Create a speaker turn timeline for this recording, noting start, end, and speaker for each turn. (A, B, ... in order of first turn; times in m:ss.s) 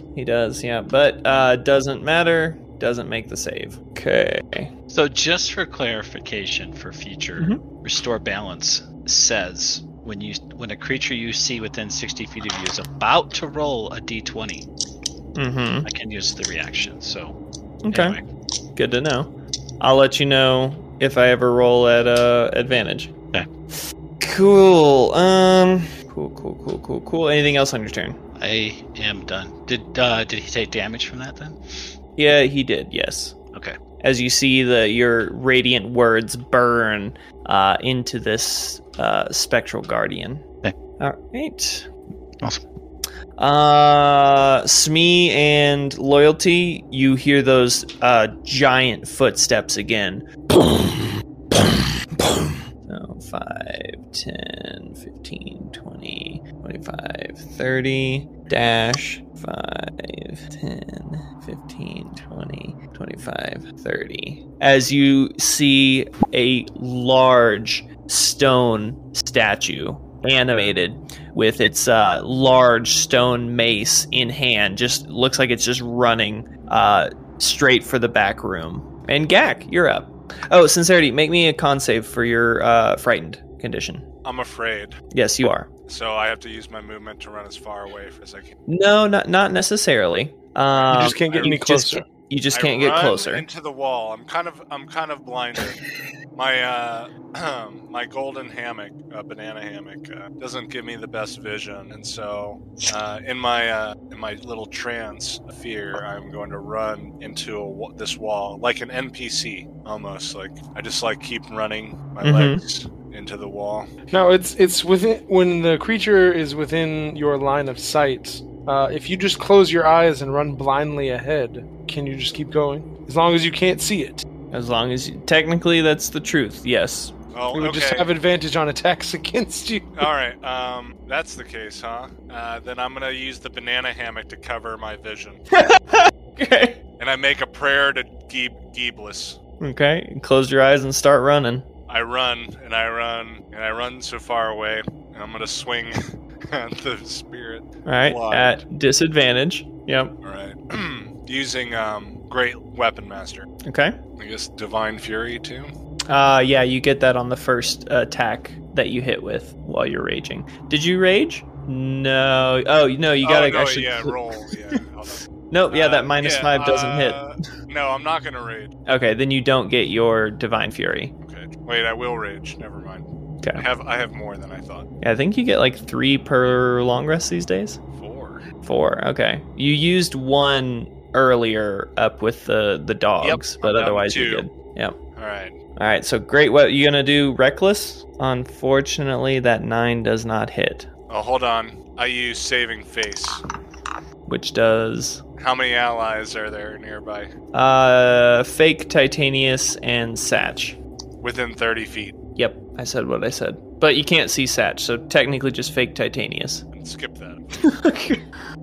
0:00.1-0:04.7 A
0:04.9-0:14.7 B
0:15.3-0:15.8 A
0:15.8-0:17.4 B
0:17.8-0:18.2 A
0:17.9-0:18.2 B
0:18.8-0:23.1 A
0:24.2-0:28.2 A
0:28.4-0:31.6 B
0:32.2-0:33.4 A
0:34.0-0:40.4 A
0:41.0-0:41.9 A
0:43.4-1:24.1 A
1:24.2-1:25.0 C
1:25.1-1:25.7 A
1:25.9-1:28.5 C
1:28.7-1:33.4 A
1:30.7-1:31.6 C
1:30.9-1:32.0 D
1:32.5-1:35.8 C
1:36.3-1:53.9 C
1:52.2-1:52.6 A
1:54.1-2:04.2 D
2:04.5-2:07.1 A
2:07.3-2:08.1 C
2:07.5-2:10.0 D
2:10.0-2:15.4 C
2:15.5-2:16.8 A
2:17.0-2:19.4 C
2:19.6-2:21.7 A
2:21.9-2:28.6 C
2:27.8-2:30.1 A
2:30.2-2:33.5 C
2:33.6-2:33.9 A
2:34.2-2:35.7 C
2:36.1-2:44.5 A
2:43.2-2:48.7 C
2:45.5-2:47.2 A
2:48.9-2:51.1 A
2:51.2-2:54.9 C
2:55.0-2:57.8 A
2:57.9-2:58.4 C
2:58.6-3:05.0 A
3:03.2-3:04.4 C
3:05.2-3:05.6 C
3:05.8-3:10.9 A
3:11.1-3:13.4 C
3:14.2-3:15.2 A
3:15.4-3:17.3 C
3:17.5-3:20.8 A
3:21.2-3:22.2 C
3:22.4-3:26.6 A
3:26.7-3:27.4 C
3:27.6-3:28.2 A